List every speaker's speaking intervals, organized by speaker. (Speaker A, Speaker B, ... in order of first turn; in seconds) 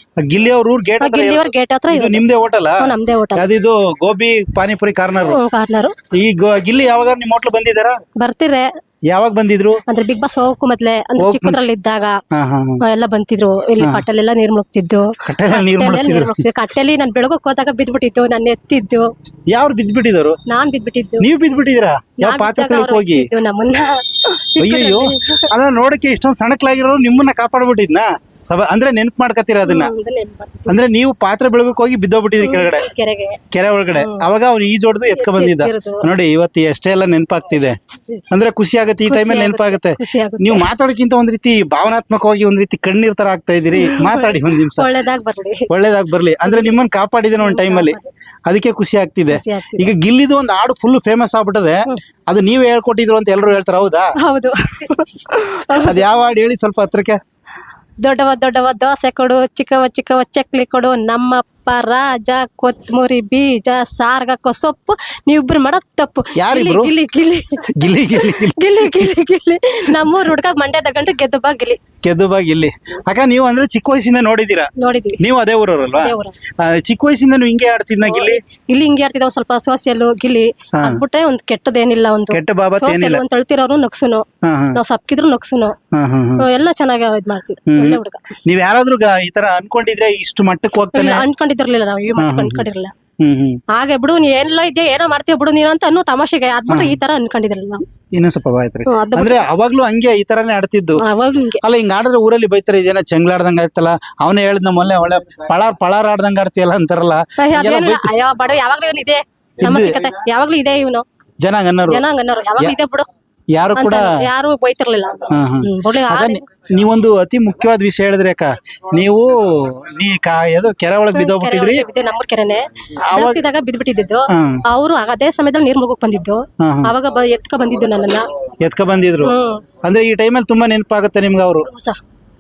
Speaker A: 0.2-5.4, 6.1-8.0, 9.1-9.8, 11.2-11.6, 12.3-12.8, 15.2-16.5, 19.5-20.4, 21.2-23.3, 24.6-29.9, 30.7-32.9, 33.5-37.8, 38.3-44.9, 45.7-54.1, 55.7-57.2, 66.3-66.9, 67.7-69.1, 72.0-78.4, 80.8-81.0, 82.3-83.2, 84.4-84.8, 85.9-86.5, 87.7-91.3, 92.2-92.7, 93.2-93.6, 96.7-97.0, 98.1-101.0, 101.6-108.1, 109.6-110.1, 111.4-112.0, 113.5-114.1, 115.3-121.8, 123.1-123.4, 124.3-124.6, 126.6-127.0, 128.6-131.7
Speaker B: 1.0-2.2, 2.8-3.5, 5.3-6.0, 8.2-8.7, 9.9-12.2, 12.8-19.1, 20.5-21.3, 22.2-25.5, 29.6-30.8, 32.4-33.4, 33.9-34.3, 35.1-36.1, 39.1-40.7, 43.8-45.7, 46.4-46.8, 47.4-48.1, 49.3-49.9, 54.2-56.0, 58.0-71.8, 74.8-75.2, 76.0-76.4, 78.0-85.8, 86.4-88.3, 90.9-92.9, 93.7-97.8, 98.9-99.5, 101.0-101.6, 107.4-111.0, 111.9-113.1, 113.7-116.4, 121.1-128.3, 129.2-129.6, 131.7-132.0